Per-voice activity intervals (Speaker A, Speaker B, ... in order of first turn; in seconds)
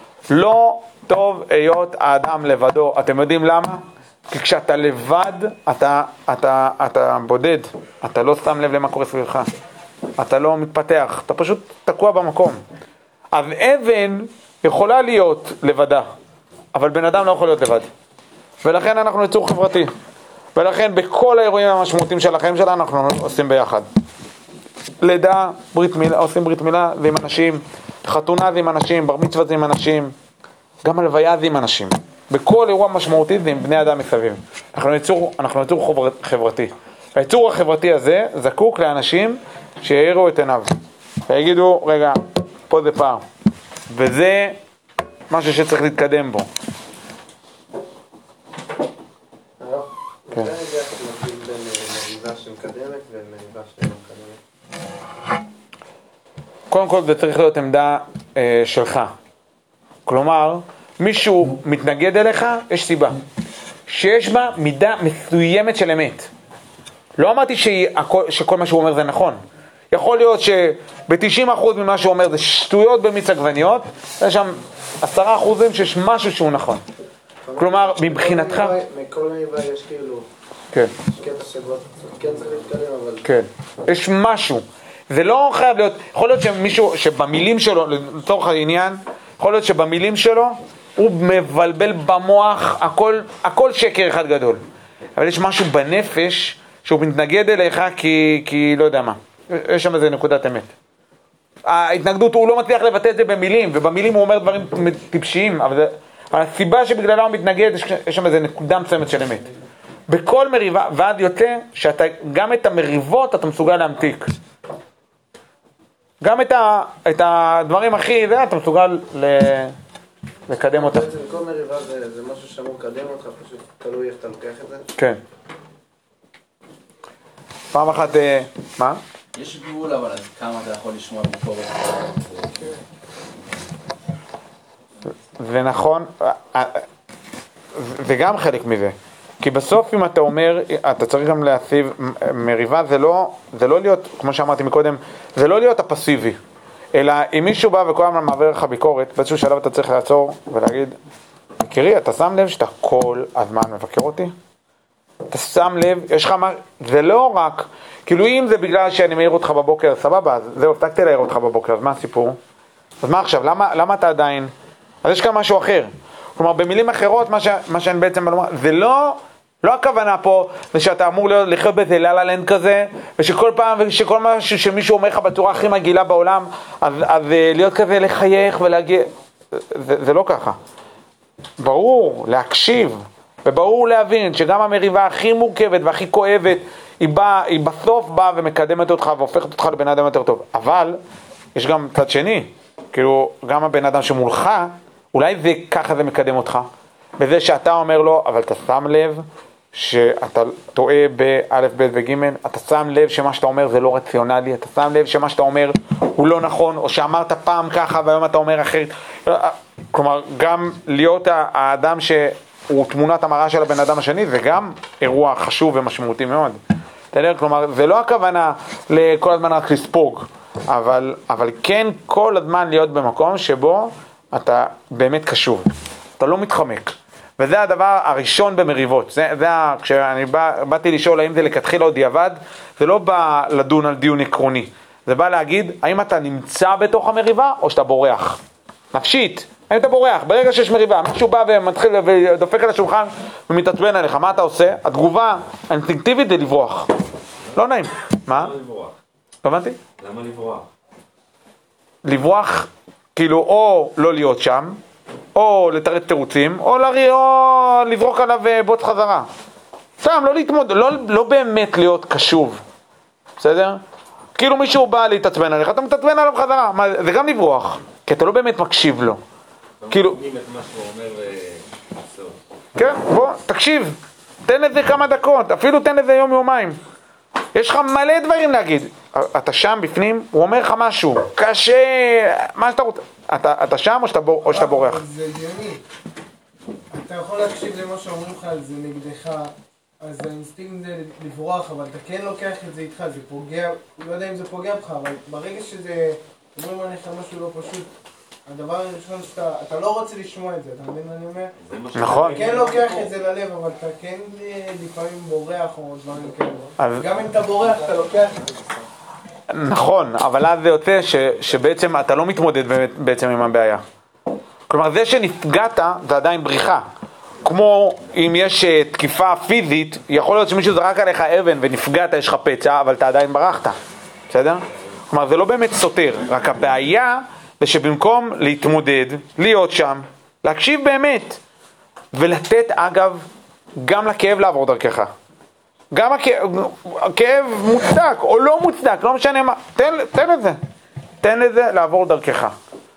Speaker A: 0.3-9.5, 10.2-12.6, 13.3-16.1, 16.7-17.9, 18.6-19.9, 20.6-23.9, 25.0-30.1, 30.8-40.7, 41.3-43.2, 43.9-44.6, 45.3-46.5, 56.7-59.1, 60.0-63.2, 63.9-66.3, 67.2-69.4, 69.9-76.8, 77.6-78.7, 83.2-94.6, 95.2-100.7, 101.7-109.5, 110.1-114.3, 116.2-119.7, 120.5-121.0, 127.7-129.0, 135.4-136.8, 137.7-146.4, 146.9-150.9, 151.6-154.3, 155.3-162.4, 163.0-164.5, 165.0-180.6, 181.6-191.0, 191.5-196.7, 197.2-216.6, 217.1-238.4, 238.9-246.9, 247.5-248.5, 249.4-249.8, 252.0-254.8, 255.3-259.3, 260.0-262.6, 263.4-263.8, 264.4-269.2, 269.9-270.2, 272.8-276.8, 277.5-285.0, 301.9-302.4, 306.8-307.1, 309.5-313.8, 314.7-316.8, 317.4-323.8, 324.3-331.4, 332.1-333.2, 333.8-335.1, 335.9-340.6, 341.2-342.5
Speaker B: 49.6-54.4, 77.5-80.2, 81.1-83.2, 120.7-124.8
Speaker C: 129.3-132.5
Speaker D: 248.3-248.9, 250.0-250.7, 269.8-272.4, 301.6-302.8
Speaker E: 284.5-285.8, 286.9-297.9, 298.5-301.5, 302.3-308.5